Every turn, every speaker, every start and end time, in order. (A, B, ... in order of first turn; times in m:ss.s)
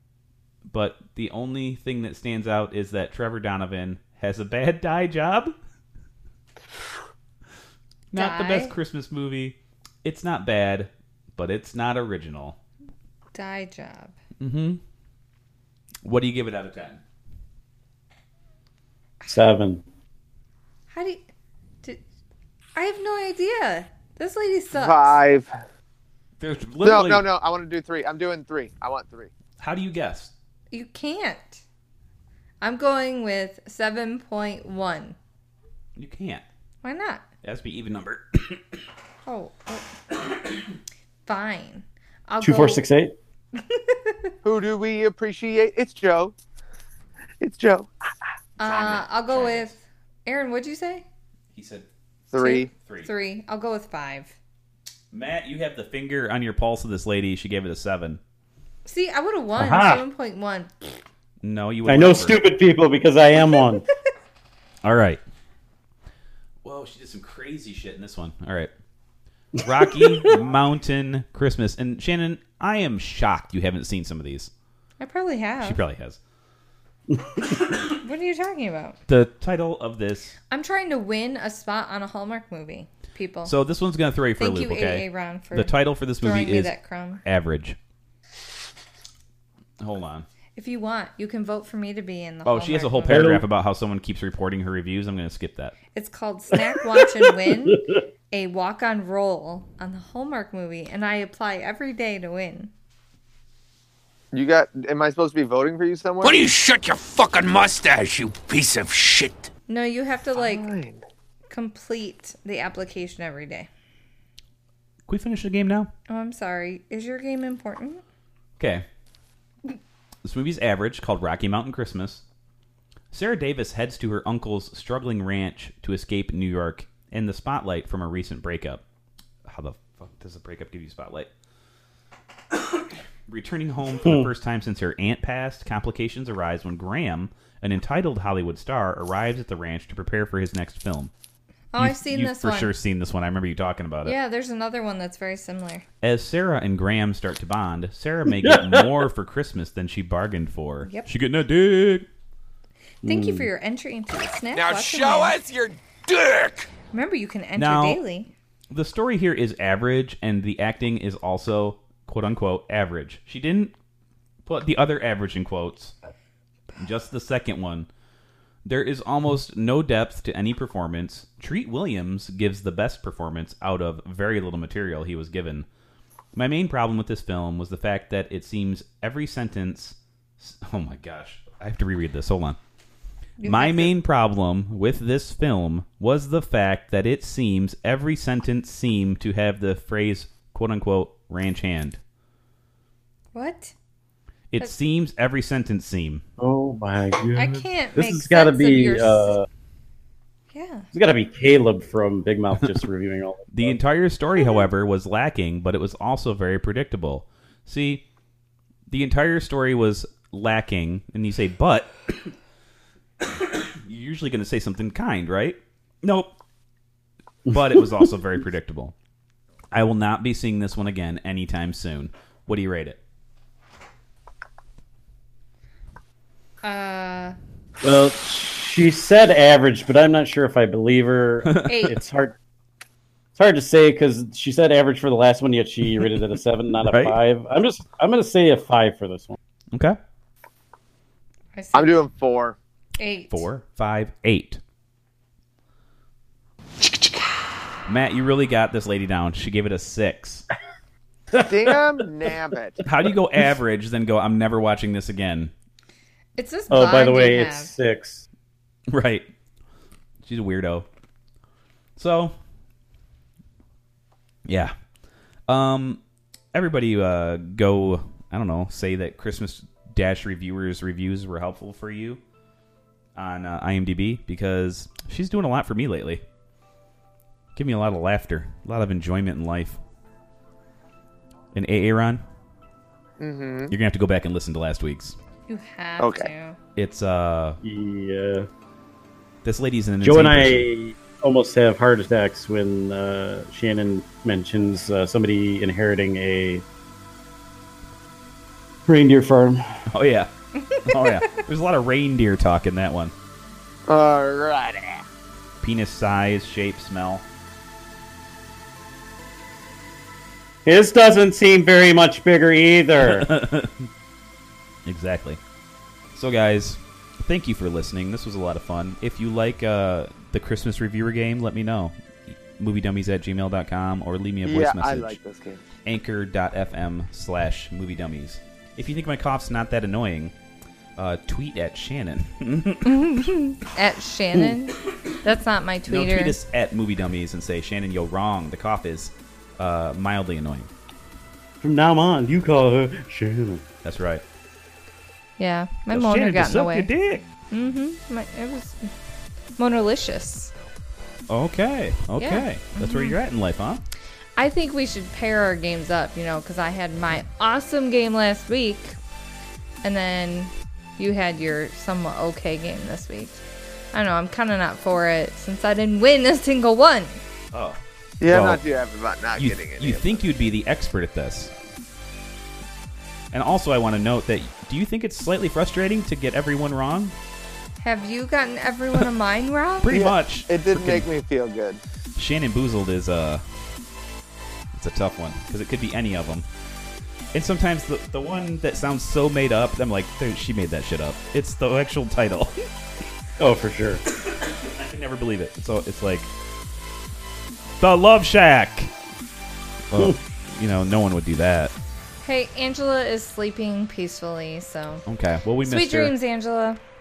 0:00.7-0:05.5 A
0:08.1-0:12.6 A
0:08.1-0:08.7 B
0:13.3-0:14.2 B
0:14.4-0:14.8 A
0:16.0-0:17.0 A
0:19.3-0:19.8 C
0:20.9-0:21.2 B
0:22.7-0:25.2 B
0:24.7-0:25.5 D
0:26.4-0:27.3 A
0:26.8-0:29.3 D
0:29.6-0:30.3 A
0:30.7-0:31.6 B
0:32.6-0:35.2 B
0:36.0-0:36.4 A
0:36.8-0:37.2 B
0:37.4-0:38.6 A
0:39.3-0:39.9 B
0:41.3-0:42.8 B
0:42.4-0:43.1 C
0:43.6-0:44.3 B
0:44.4-0:46.3 D
0:47.4-0:47.9 D
0:48.6-0:51.0 B
0:48.7-0:49.0 A
0:51.5-0:51.9 A
0:52.3-0:52.7 D
0:52.4-0:54.3 B
0:52.8-0:53.1 A
0:55.1-0:58.2 A
0:58.8-1:01.0 B
0:59.6-1:00.0 C
1:01.4-1:02.4 A
1:01.9-1:03.8 C
1:04.8-1:05.2 A
1:06.6-1:08.7 A
1:09.6-1:14.5 A
1:15.0-1:15.8 B
1:15.6-1:16.2 A
1:17.1-1:17.4 C
1:17.9-1:19.0 B
1:19.1-1:20.3 A
1:20.5-1:23.5 B
1:23.4-1:27.8 A
1:24.4-1:27.2 B
1:29.8-1:30.3 A
1:30.6-1:33.4 B
1:32.4-1:35.8 A
1:33.1-1:33.4 C
1:35.9-1:42.7 B
1:37.2-1:38.0 C
1:44.3-1:46.4 D
1:46.2-1:49.5 E
1:49.7-1:50.7 B
1:50.3-1:51.0 D
1:51.5-1:53.7 B
1:55.1-1:55.9 A
1:56.1-1:58.0 B
1:58.6-1:58.9 A
2:00.2-2:02.2 A
2:03.1-2:08.8 A
2:09.4-2:11.3 A
2:12.7-2:21.1 A
2:14.0-2:14.3 C
2:21.7-2:22.7 B
2:21.8-2:24.2 A
2:24.0-2:25.8 B
2:26.0-2:32.1 A
2:28.4-2:28.9 C
2:33.0-2:33.5 C
2:33.0-2:35.4 B
2:34.5-2:36.7 E
2:36.9-2:38.3 B
2:37.6-2:38.0 A
2:38.7-2:43.7 A
2:44.4-2:45.9 A
2:46.8-2:47.9 A
2:48.6-2:55.7 A
2:56.3-3:02.6 A
3:03.4-3:03.9 B
3:03.4-3:12.0 A
3:13.3-3:13.7 B
3:14.5-3:16.2 A
3:16.4-3:19.5 C
3:17.4-3:19.3 B
3:20.5-3:20.9 B
3:20.9-3:23.8 C
3:23.5-3:28.0 A
3:28.9-3:32.3 A
3:33.2-3:36.3 A
3:37.5-3:38.1 C
3:37.5-3:38.9 A
3:39.7-3:43.0 A
3:46.6-3:47.4 B
3:47.8-3:52.4 C
3:51.4-3:51.9 A
3:51.7-3:52.0 B
3:53.4-3:59.4 C
3:56.8-3:57.2 A
3:59.7-4:00.0 A
4:01.6-4:02.0 B
4:01.7-4:02.6 D
4:03.0-4:03.4 B
4:03.3-4:04.6 A
4:06.8-4:07.2 E
4:07.9-4:10.4 A
4:11.4-4:12.8 D
4:12.8-4:15.5 A
4:16.4-4:17.7 B
4:16.7-4:18.3 C
4:18.9-4:19.3 A
4:20.2-4:20.9 A
4:22.0-4:22.4 A
4:24.4-4:24.7 A
4:25.5-4:26.0 A
4:26.5-4:32.2 A
4:33.2-4:36.2 A
4:37.6-4:39.8 A
4:41.5-4:42.2 A
4:43.2-4:43.7 D
4:43.7-4:45.2 A
4:45.5-4:46.6 B
4:46.0-4:46.3 D
4:46.8-4:47.6 A
4:47.6-4:48.5 C
4:49.4-4:50.7 A
4:50.0-4:56.6 C
4:58.8-4:59.8 C
4:59.9-5:00.3 A
5:00.7-5:01.0 B
5:00.8-5:03.1 A
5:03.9-5:05.1 D
5:05.6-5:07.3 A
5:10.6-5:13.3 C
5:13.0-5:13.9 A
5:14.8-5:15.4 A
5:16.1-5:25.2 A
5:24.4-5:25.6 D
5:25.8-5:30.3 A
5:31.0-5:32.9 A
5:32.8-5:36.4 B
5:35.9-5:40.7 A
5:41.6-5:43.6 C
5:43.8-5:44.2 A
5:45.4-5:46.9 B
5:45.9-5:47.3 A
5:47.5-5:48.8 B
5:49.6-5:50.5 B
5:51.3-5:53.8 A
5:52.2-5:53.2 B
5:54.4-5:59.0 B
5:59.8-6:03.4 B
6:03.9-6:07.2 B
6:07.5-6:08.6 A
6:08.2-6:10.2 D
6:09.4-6:11.5 A
6:13.3-6:17.1 A
6:17.8-6:19.9 B
6:19.8-6:21.1 A
6:19.9-6:21.8 D
6:22.2-6:23.4 A
6:24.7-6:26.5 A
6:27.3-6:32.5 A
6:33.4-6:34.0 C
6:34.2-6:36.3 A
6:37.8-6:38.9 A
6:39.9-6:41.7 A
6:42.2-6:45.0 B
6:45.1-6:46.1 A
6:45.6-6:46.8 B